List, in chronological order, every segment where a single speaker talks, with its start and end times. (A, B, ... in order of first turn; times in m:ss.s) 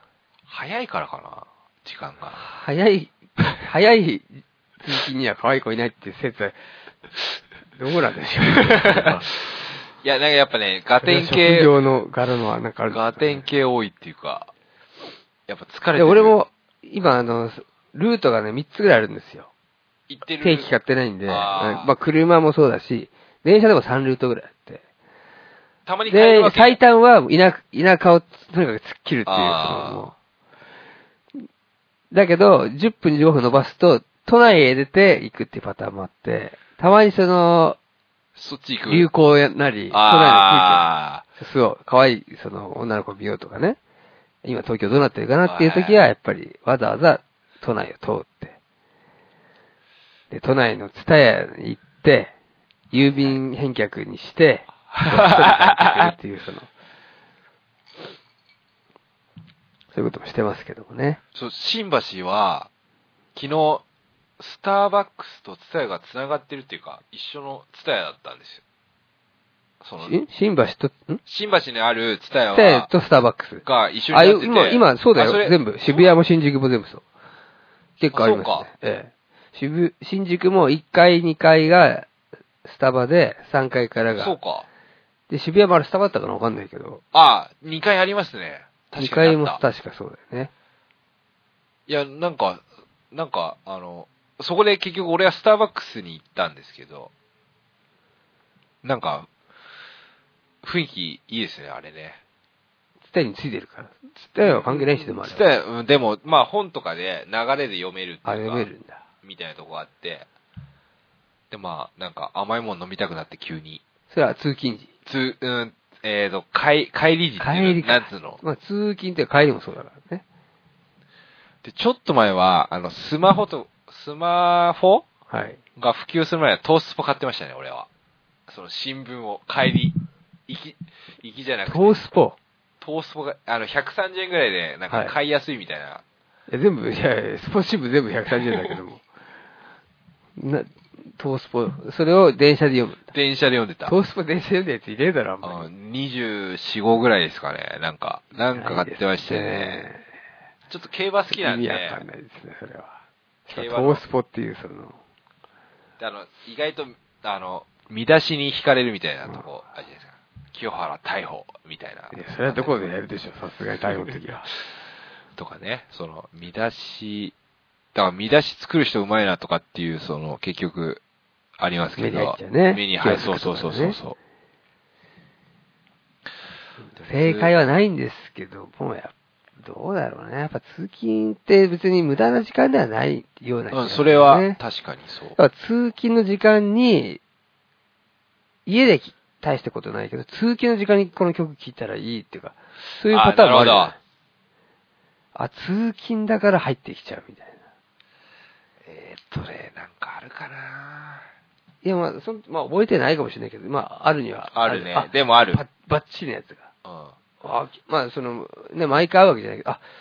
0:00.5-0:02.4 A
0:02.3-0:04.3 B
0:04.8-0:06.6 B
0:07.7-0:09.3 B
0:08.7-0:11.7 A
0:11.0-0:13.4 B
0:12.9-0:14.5 A
0:15.5-0:16.3 A
0:16.0-0:19.5 B
0:20.1-0:20.7 A
0:20.4-0:24.8 B
0:21.3-0:21.9 A
0:25.8-0:26.8 A
0:26.1-0:30.1 B
0:29.2-0:30.1 A
0:32.1-0:37.8 B
0:38.4-0:39.1 A
0:38.9-0:43.8 B
0:39.9-0:41.2 A
0:44.4-0:48.6 B
0:45.4-0:46.0 A
0:50.3-0:52.3 B
0:52.9-0:56.7 B
0:54.9-0:56.1 A
0:59.9-1:01.2 B
1:01.3-1:02.7 A
1:03.3-1:03.8 A
1:04.4-1:08.6 A
1:09.8-1:10.1 A
1:10.0-1:11.2 B
1:11.2-1:12.9 A
1:12.5-1:17.0 B
1:13.6-1:16.1 A
1:18.0-1:22.1 B
1:18.1-1:18.7 A
1:22.6-1:24.4 B
1:24.2-1:24.7 A
1:25.3-1:27.0 B
1:27.1-1:29.6 A
1:29.0-1:30.5 B
1:31.9-1:37.1 A
1:38.8-1:39.3 A
1:40.6-1:42.2 A
1:43.1-1:45.4 B
1:44.4-1:48.7 A
1:48.2-1:49.0 B
1:49.2-1:50.3 A
1:51.5-1:53.8 A
1:54.1-1:54.9 B
1:55.0-1:58.4 A
1:57.4-2:00.2 B
2:01.6-2:05.0 A
2:05.3-2:05.6 B
2:05.8-2:07.9 A
2:08.5-2:09.9 A
2:10.5-2:12.0 A
2:11.6-2:12.4 B
2:12.8-2:16.0 A
2:14.9-2:15.2 B
2:16.5-2:19.0 B
2:18.5-2:18.8 A
2:20.4-2:23.1 B
2:23.1-2:23.9 A
2:23.8-2:25.7 B
2:25.4-2:29.9 A
2:28.5-2:30.0 B
2:30.7-2:32.0 A
2:31.3-2:32.9 B
2:33.5-2:35.0 B
2:33.5-2:34.0 A
2:36.0-2:42.7 A
2:42.1-2:44.5 B
2:45.4-2:47.3 A
2:47.9-2:51.0 A
2:51.6-2:54.2 A
2:52.0-2:54.0 B
2:57.0-3:04.6 B
2:57.0-2:57.5 A
3:03.7-3:05.4 A
3:05.4-3:07.2 B
3:08.6-3:14.0 B
3:13.1-3:14.0 A
3:15.3-3:17.6 B
3:18.8-3:21.2 A
3:21.8-3:26.7 B
3:24.5-3:25.6 A
3:26.8-3:27.1 A
3:27.4-3:29.8 B